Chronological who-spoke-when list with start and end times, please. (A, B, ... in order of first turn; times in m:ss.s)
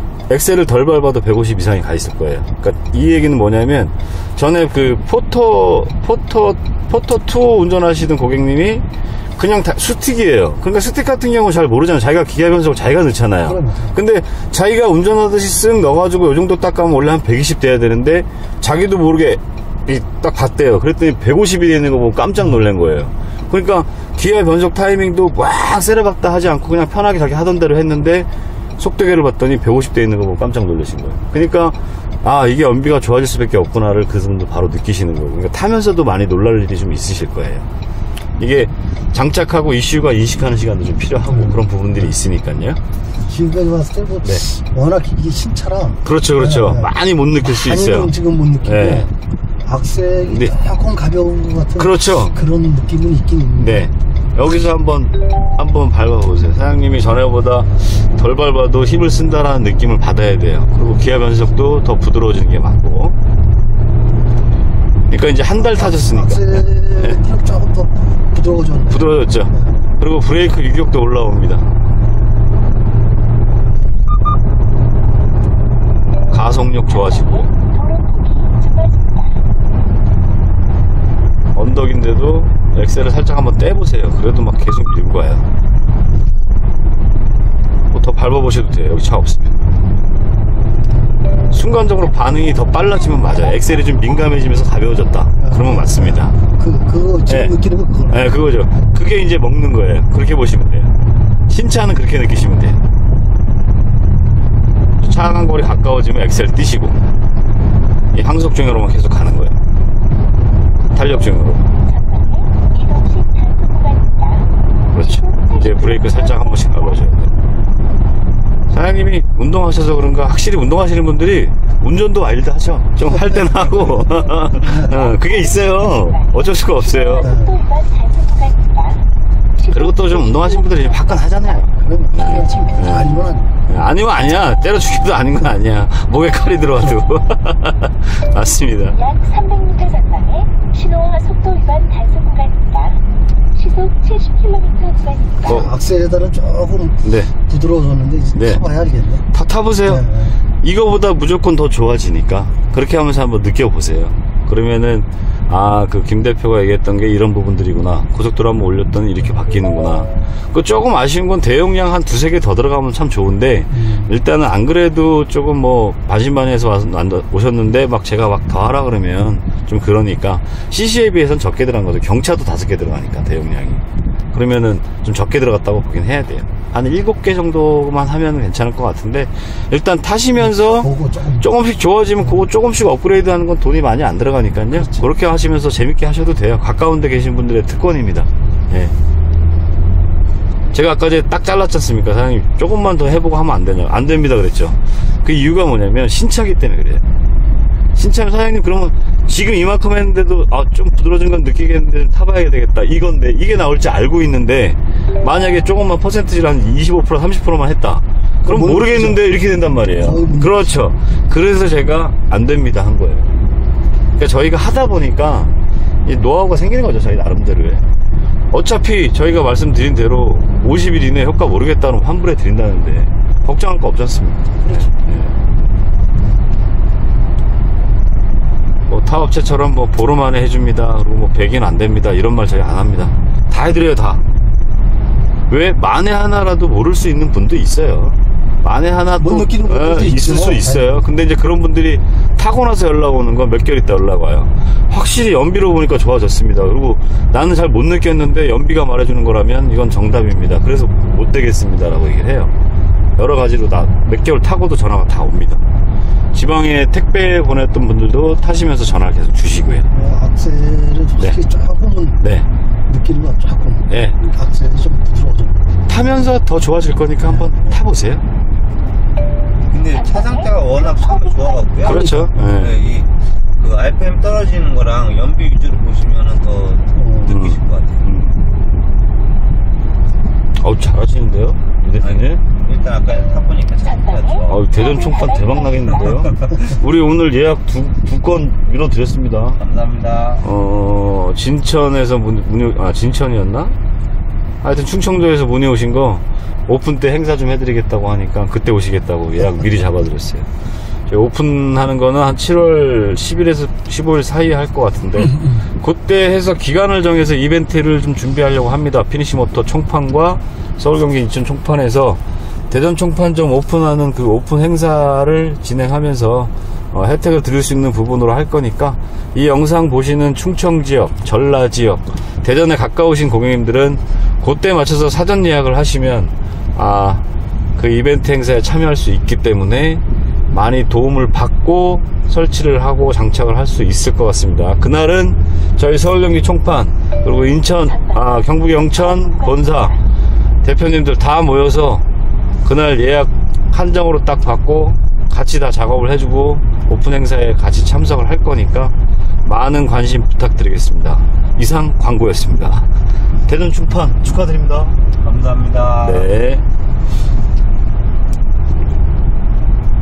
0:00.3-0:08.8 A
0:09.4-0:37.7 A
0:38.4-0:42.8 A
0:43.4-0:45.9 B
0:44.2-0:44.4 A
0:46.0-0:49.1 A
0:48.2-0:48.5 B
0:49.7-0:51.7 B
0:50.1-0:50.6 A
0:51.7-0:52.5 A
0:52.4-0:53.5 B
0:53.5-1:03.2 A
1:05.1-1:07.4 A
1:06.6-1:08.8 B
1:08.8-1:11.7 A
1:16.3-1:17.5 A
1:18.0-1:18.8 C
1:21.6-1:25.4 A
1:27.9-1:29.6 A
1:31.5-1:36.4 A
1:36.6-1:38.0 B
1:37.3-1:40.9 A
1:41.5-1:42.8 A
1:45.0-1:47.0 A
1:48.1-1:49.6 A
1:50.9-1:51.7 A
1:52.9-1:53.6 C
1:54.9-1:57.3 A
1:58.7-2:07.5 A
2:09.7-2:19.1 A
2:12.4-2:13.4 B
2:19.5-2:20.4 C
2:21.0-2:22.5 C
2:25.4-2:25.8 A
2:25.7-2:26.9 B
2:27.0-2:27.4 A
2:27.5-2:29.1 B
2:28.3-3:09.0 A
3:00.9-3:01.3 B
3:10.7-3:17.0 A
3:17.9-3:33.3 A
3:34.2-3:35.5 A
3:36.0-3:37.8 A
3:38.5-3:45.3 A
3:48.9-3:54.2 A
3:55.5-4:12.5 A
4:13.2-4:15.6 A
4:16.3-4:19.9 A
4:20.0-4:22.0 B
4:21.2-4:21.5 A
4:22.1-4:22.5 A
4:22.9-4:23.8 B
4:23.9-4:24.2 A
4:24.4-4:25.5 B
4:25.9-4:28.2 A
4:29.7-4:38.0 D
4:31.8-4:32.8 A
4:37.2-4:38.4 A
4:40.6-4:42.4 A
4:42.0-4:44.7 D
4:44.5-4:49.6 A
4:46.0-4:46.5 D
4:49.6-4:50.4 D
4:50.4-4:53.8 A
4:54.6-5:00.5 A
5:01.1-5:27.2 A
5:27.8-5:40.0 A
5:40.6-5:42.0 A
5:42.6-5:48.9 A
5:49.4-5:52.9 A
5:53.5-5:55.0 A
5:55.2-5:56.3 D
5:56.0-5:56.7 A